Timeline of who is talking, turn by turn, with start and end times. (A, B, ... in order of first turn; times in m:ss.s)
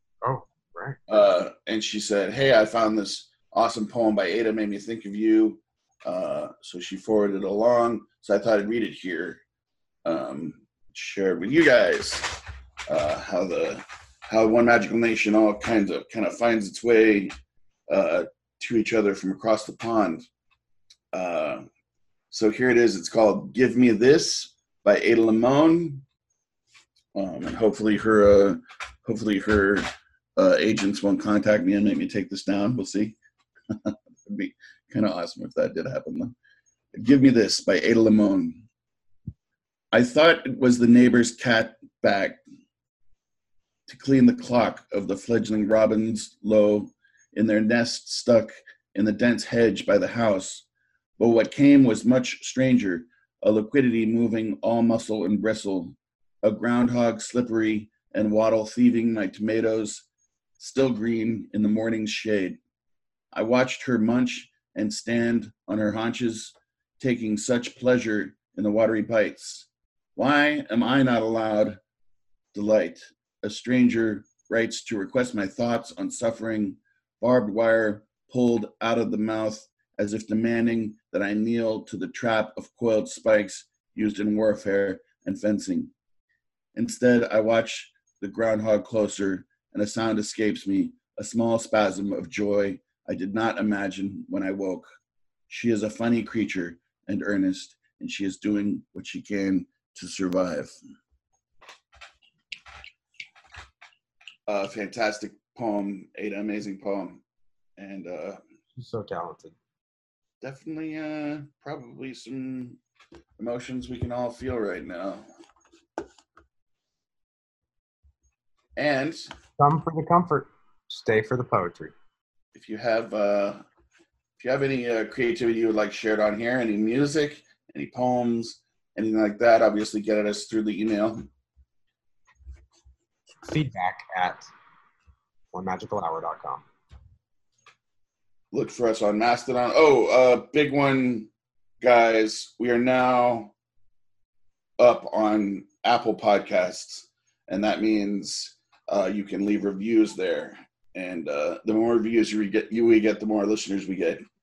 0:00.2-0:01.0 A
0:01.1-0:09.4 B
0:10.0-0:17.3 B
0:17.9-0:20.2 B
0:21.1-0:21.6 B
0:22.3-0:26.0 B
0:27.1-0:33.2 B
0:33.7-0:36.3 B
0:36.9-0:38.6 B
0:39.9-0:42.4 B
0:43.9-0:50.6 B
0:51.2-1:00.0 B
1:00.6-1:02.6 B
1:03.3-1:11.8 B
1:12.5-1:25.9 B
1:26.7-1:34.8 B
1:35.5-1:40.7 B
1:44.5-1:47.2 B
1:47.8-1:48.4 B
1:48.8-1:49.5 A
1:50.4-1:52.8 B
1:53.4-1:55.3 B
1:58.8-1:59.3 B
1:59.6-2:01.9 A
2:02.5-2:03.6 B
2:04.4-2:11.3 B
2:13.5-2:14.5 A
2:15.5-2:16.6 A
2:18.5-2:23.5 B
2:24.8-2:34.2 B